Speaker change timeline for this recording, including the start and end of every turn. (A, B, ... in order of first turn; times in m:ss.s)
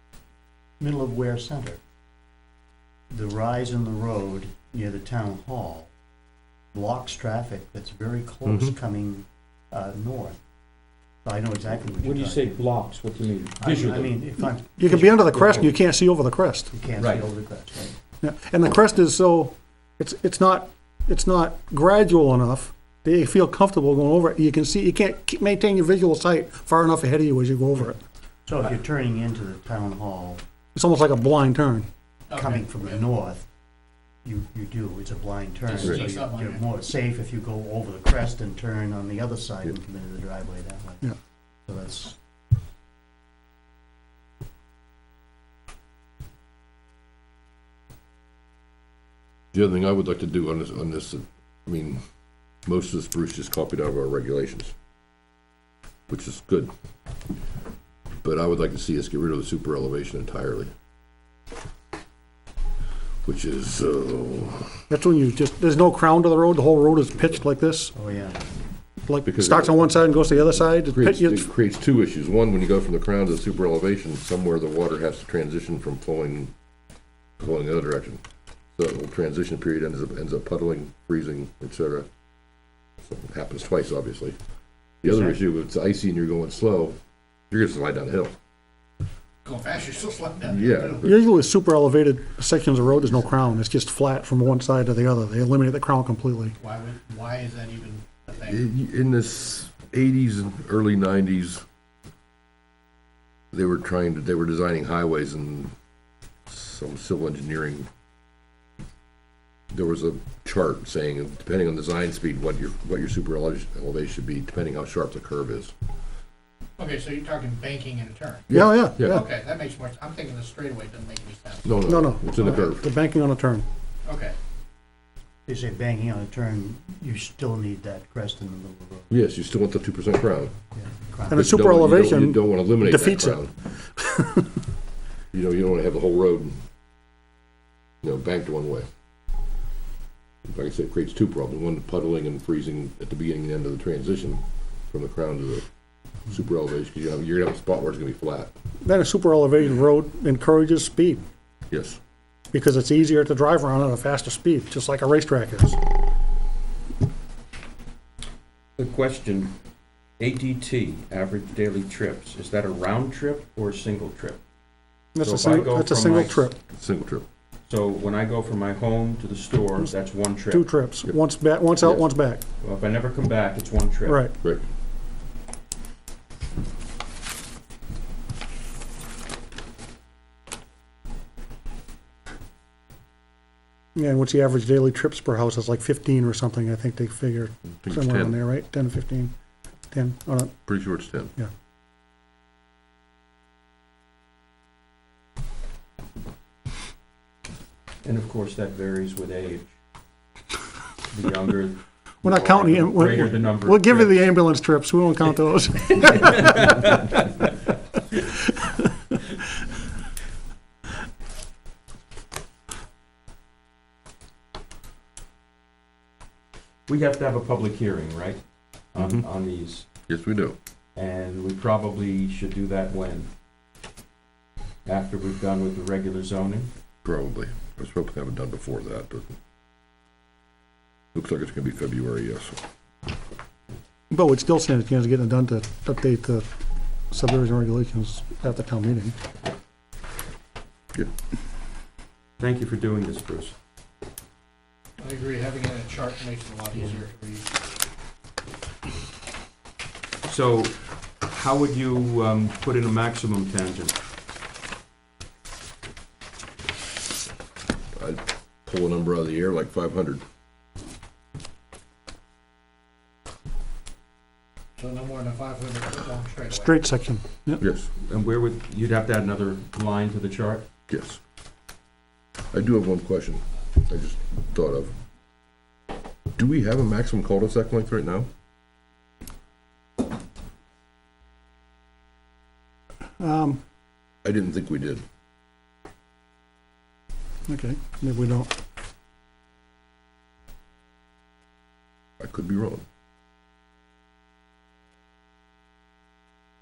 0:00.8-0:01.8 A
0:03.1-0:05.9 A
0:06.7-0:10.4 A
0:08.5-0:08.7 B
0:11.2-0:12.6 A
0:11.9-0:14.2 C
0:13.6-0:15.6 A
0:14.8-0:16.7 D
0:15.2-0:15.8 C
0:16.7-0:18.0 A
0:17.0-0:17.2 C
0:18.2-0:28.0 D
0:28.5-0:30.4 A
0:30.7-0:31.9 D
0:32.3-0:32.8 E
0:32.3-0:33.4 A
0:34.2-0:41.1 A
0:35.7-0:36.6 E
0:41.6-0:42.2 A
0:49.5-0:52.0 B
0:52.6-0:54.7 B
0:56.1-0:56.7 B
0:58.2-1:00.7 B
1:03.2-1:04.8 B
1:04.9-1:07.9 D
1:07.9-1:08.4 A
1:09.0-1:11.4 D
1:09.2-1:16.5 B
1:17.4-1:18.2 B
1:18.8-1:22.1 B
1:23.0-1:24.3 B
1:25.0-1:27.0 B
1:27.5-1:28.3 B
1:29.4-1:31.1 E
1:30.5-1:31.1 B
1:31.0-1:36.5 D
1:36.6-1:38.6 E
1:38.4-1:41.6 B
1:43.5-1:45.7 B
1:46.5-1:47.9 B
1:49.7-1:55.7 B
1:56.8-1:58.5 E
1:58.5-1:59.2 B
1:58.5-1:59.2 D
1:59.1-2:01.7 E
2:01.6-2:02.8 B
2:01.8-2:03.6 D
2:04.0-2:04.4 E
2:05.5-2:09.1 A
2:09.1-2:10.5 B
2:10.7-2:11.5 A
2:11.3-2:14.5 D
2:11.3-2:13.5 B
2:15.3-2:16.6 B
2:18.0-2:18.8 B
2:20.4-2:25.6 B
2:26.3-2:28.5 B
2:28.8-2:31.2 D
2:31.7-2:32.0 B
2:32.5-2:35.8 D
2:38.8-2:39.5 C
2:40.2-2:44.4 C
2:45.1-2:46.6 D
2:45.2-2:46.5 C
2:46.7-2:47.2 B
2:47.7-2:50.7 C
2:50.5-2:52.4 D
2:52.6-2:54.2 C
2:54.0-2:54.3 D
3:03.9-3:09.3 D
3:07.8-3:08.4 B
3:09.9-3:10.7 D
3:10.6-3:11.3 B
3:18.0-3:19.7 C
3:21.1-3:24.2 C
3:22.2-3:26.8 D
3:26.0-3:27.2 C
3:28.2-3:28.8 D
3:36.9-3:38.4 C
3:38.9-3:39.9 C
3:38.9-3:39.2 B
3:40.1-3:40.6 B
3:40.9-3:43.3 C
3:44.8-3:46.7 C
3:47.0-3:49.4 B
3:51.1-3:52.6 B
3:54.1-3:56.4 D
3:57.1-3:59.1 D
4:02.4-4:03.5 C
4:05.0-4:07.5 E
4:10.2-4:13.9 C
4:18.0-4:20.2 B
4:24.8-4:26.8 E
4:26.5-4:27.6 D
4:27.6-4:27.9 B
4:28.0-4:30.7 C
4:30.9-4:31.2 B
4:32.5-4:34.9 B
4:36.4-4:38.3 B
4:43.2-4:43.6 D
4:44.2-4:45.0 B
4:47.5-4:48.5 D
4:52.2-4:52.8 B